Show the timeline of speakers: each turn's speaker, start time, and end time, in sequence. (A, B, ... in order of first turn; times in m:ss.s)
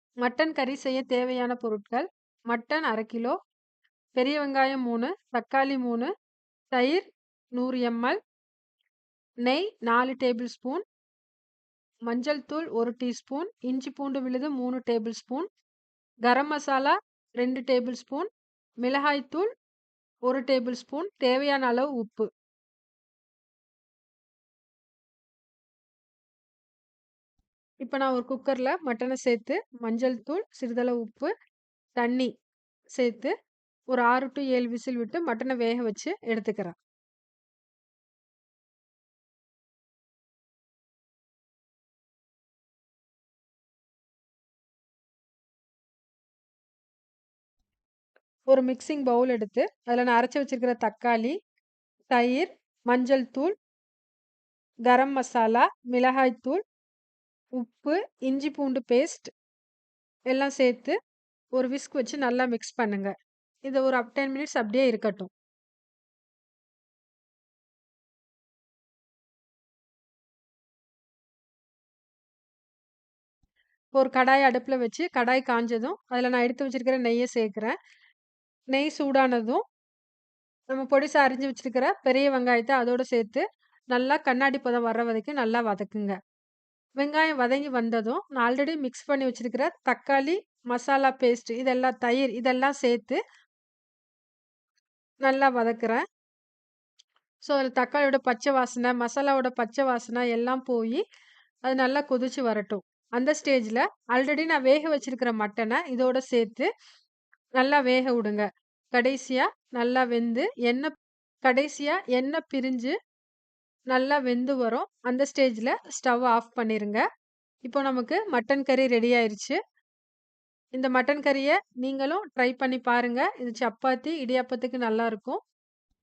0:00.2-0:03.3 A
0:04.2-0:06.1 A
0:06.7-0:07.0 A
0:07.6-0:08.2 A
0:09.4-0:10.8 A
0:12.1-0:15.5 A
0:16.2-0:18.3 A
0:18.8-0:19.5 A
0:20.3-0:22.3 A
0:27.8-0:31.3 A
0:32.0-0:32.3 A
0:32.9-0:33.3 A
0:33.9-0:36.7 A
0:48.5-0:51.3 A
0:52.1-0:53.5 A
0:54.8-0:56.6 A
0:57.6-0:59.3 A
1:00.3-1:00.9 A
1:01.5-1:03.1 A
1:03.6-1:05.3 A
1:14.0-1:17.7 A
1:18.7-1:19.6 A
1:20.7-1:26.2 A
1:27.0-1:33.2 A
1:35.2-1:36.0 A
1:37.4-1:41.0 A
1:41.6-1:46.7 A
1:47.6-1:50.9 A
1:51.4-1:52.9 A
1:53.9-1:57.0 A
1:57.6-1:59.6 A
2:00.8-2:05.4 A